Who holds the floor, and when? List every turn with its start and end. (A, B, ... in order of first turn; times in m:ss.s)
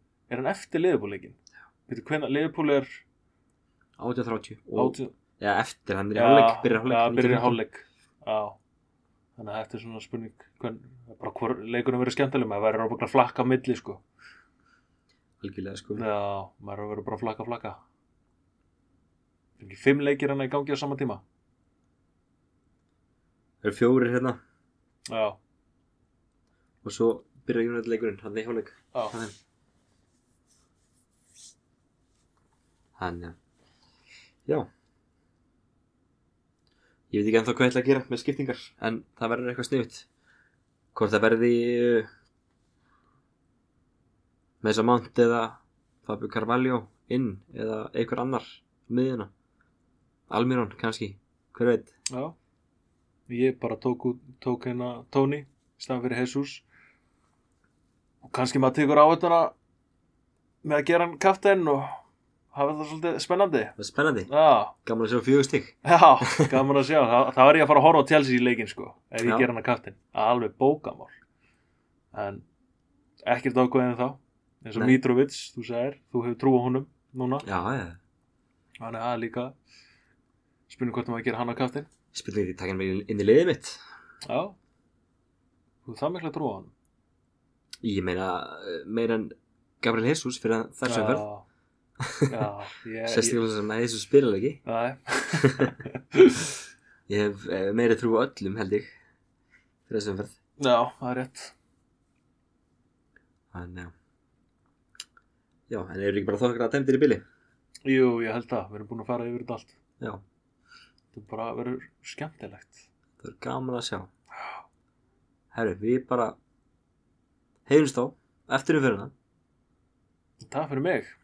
0:00.3-0:01.4 A
0:01.9-0:03.0 A
0:04.0-0:07.6 B
0:04.7-0:05.1 A
0:06.1-0:08.6 A
0:09.4-0:14.0 A
0:15.4-0:16.0 B
0:16.0-0:17.8 A
0:19.6-0:21.2 A
0:23.6-0:24.4 B
0:25.1-0:25.4 A
0:26.8-0:29.3 B
0:33.0-0:33.4 B
0:37.1-0:40.1 B
0:40.9-0:42.1 B
0:44.6-0:49.3 B
0:50.3-0:51.9 B
0:53.3-0:56.6 A
0:58.2-0:59.5 A
1:00.6-1:02.0 A
1:02.5-1:03.8 A
1:03.8-1:04.3 B
1:04.3-1:04.7 A
1:04.8-1:05.8 B
1:05.8-1:11.1 A
1:09.2-1:09.5 B
1:12.1-1:12.4 A
1:13.2-1:17.4 A
1:17.4-1:18.0 B
1:18.8-1:19.5 A
1:20.7-1:21.9 A
1:22.1-1:23.8 B
1:24.2-1:24.6 A
1:25.8-1:26.7 A
1:27.8-1:31.2 B
1:30.8-1:31.4 A
1:32.0-1:32.3 B
1:32.3-1:33.4 A
1:33.1-1:34.6 B
1:34.6-1:36.5 A
1:35.4-1:35.7 B
1:37.1-1:38.9 B
1:39.9-1:40.3 B
1:40.6-1:41.5 A
1:43.5-1:43.9 B
1:45.7-1:47.2 B
1:47.8-1:49.8 A
1:51.1-1:52.8 A
1:53.2-1:54.1 B
1:55.5-1:56.4 B
1:57.6-1:59.1 B
2:00.4-2:01.1 A